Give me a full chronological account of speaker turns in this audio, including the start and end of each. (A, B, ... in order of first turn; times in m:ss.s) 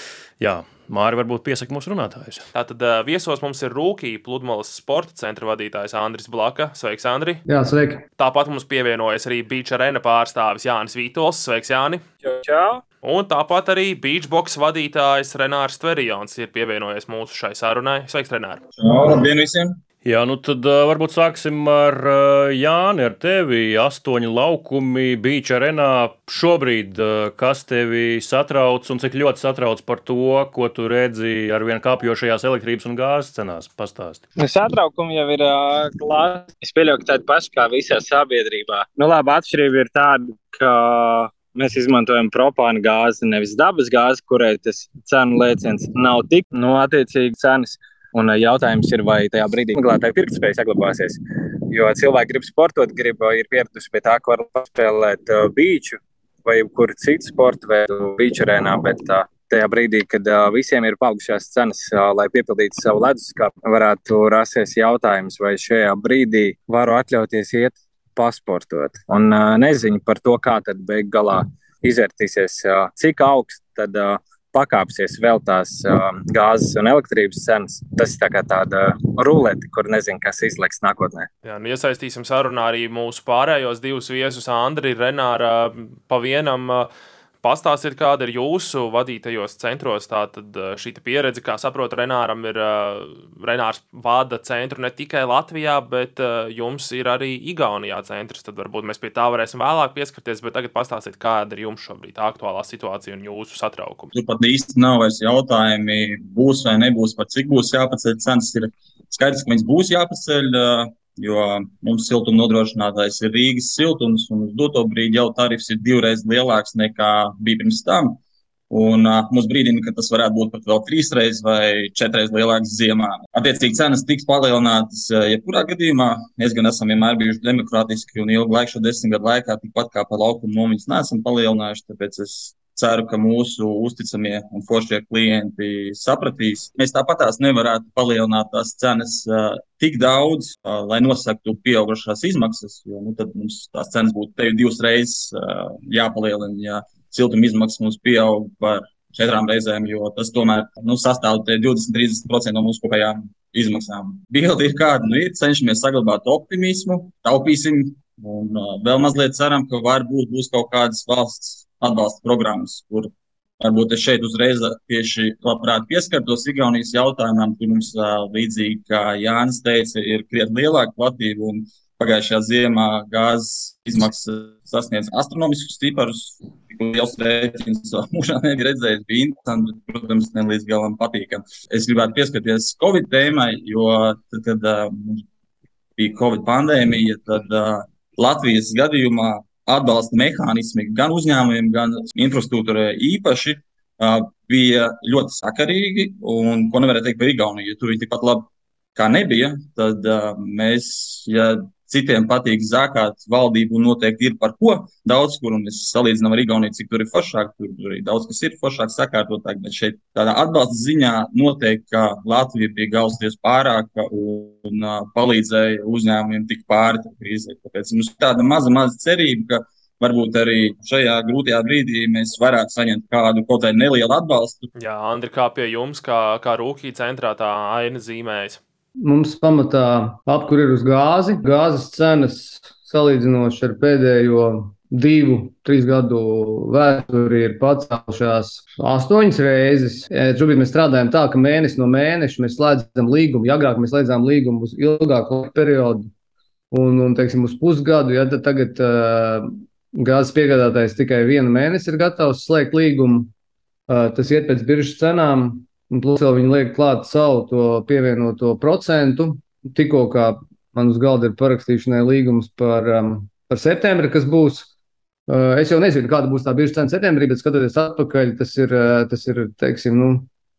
0:00.4-0:02.5 A
0:02.5-0:07.4 B
0:07.5-0:08.0 C
0:08.2-0:12.0 B
0:12.2-0:12.8 D
0:13.0-0:18.6 B
0:18.8-0:19.8 E
0:20.0-0:34.2 A
0:34.4-0:51.2 D
0:51.7-1:21.3 D
1:21.4-1:26.9 B
1:27.4-1:44.1 B
1:44.1-1:58.2 E
1:58.7-3:05.2 E
3:06.0-3:44.7 E
3:44.8-3:48.6 B
3:49.0-4:06.1 C
4:06.7-4:13.3 C
4:13.9-4:24.7 C
4:25.3-4:30.3 C